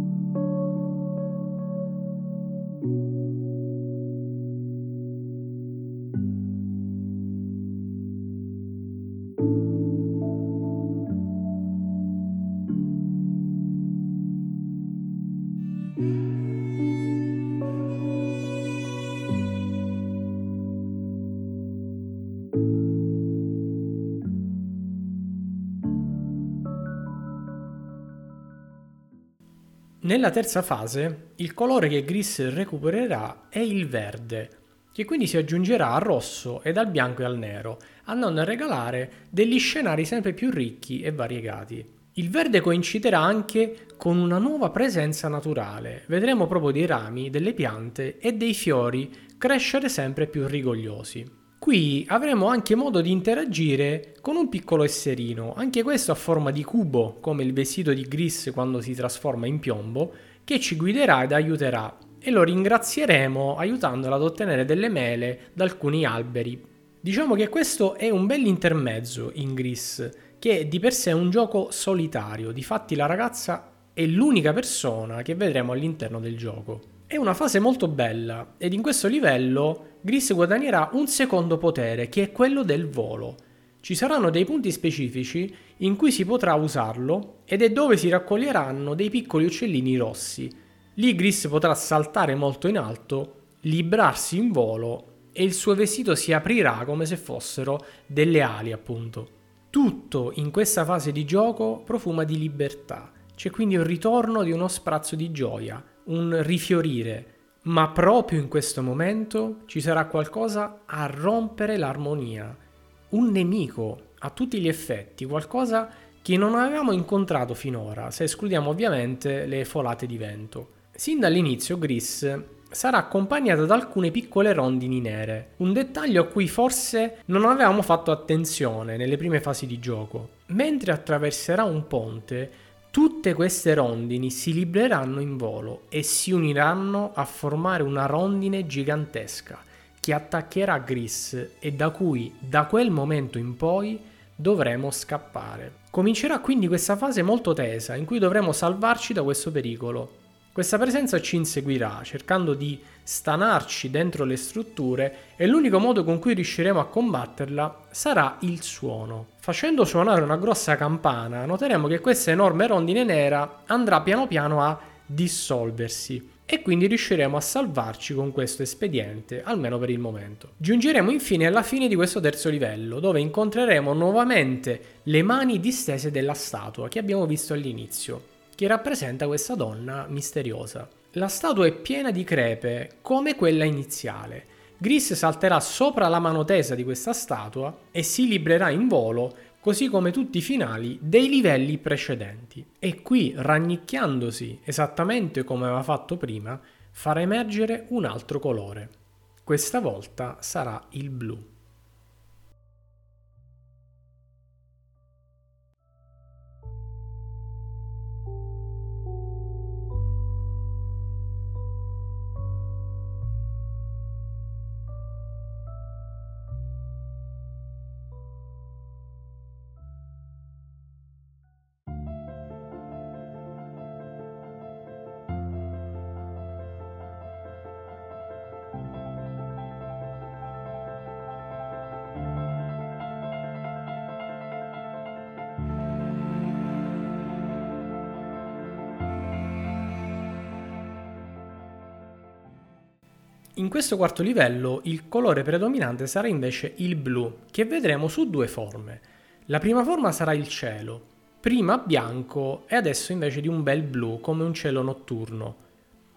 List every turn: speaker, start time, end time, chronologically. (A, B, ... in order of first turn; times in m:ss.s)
0:30.0-3:21.5 A
4:03.6-4:15.6 A